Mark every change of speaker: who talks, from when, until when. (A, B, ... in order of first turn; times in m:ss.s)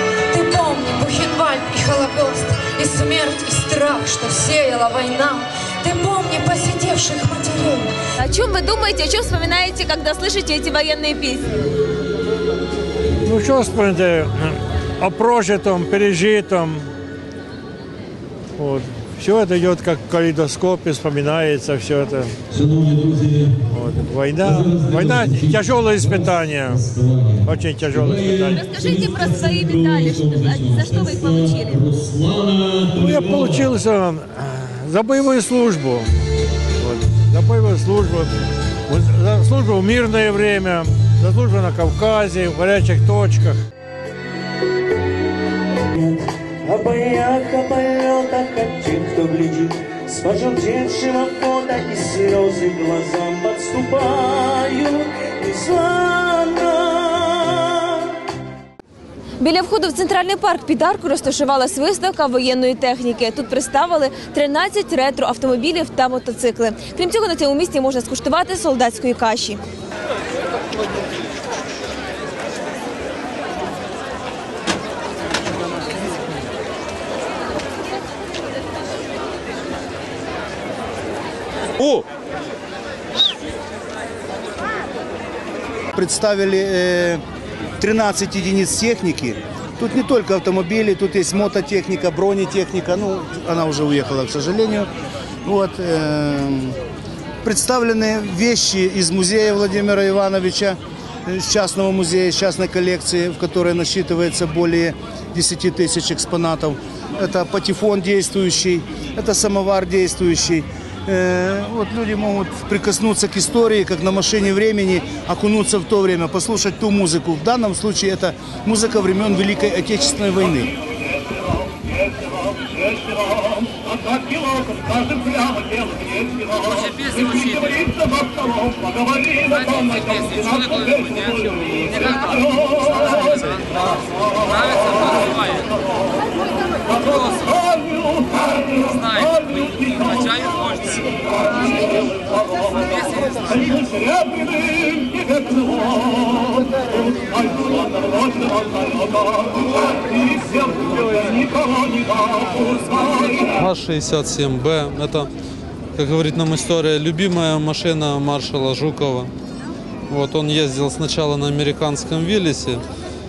0:00.3-0:07.9 A
0:08.2-0:11.6 B
0:13.2-0:16.9 C
0:18.6-0:22.4 C
0:23.7-0:26.8 C
0:27.4-0:28.6 C
0:28.5-0:31.9 B
0:32.9-0:36.1 C
0:36.8-0:38.3 C
0:38.9-0:43.6 C
0:45.9-0:57.8 D
0:59.4-1:09.6 B
1:25.9-1:27.2 E
1:27.8-1:34.9 E
1:35.4-1:36.8 E
1:37.4-2:00.7 E
2:33.6-2:35.3 F
2:36.0-2:39.3 F
2:40.1-2:42.8 F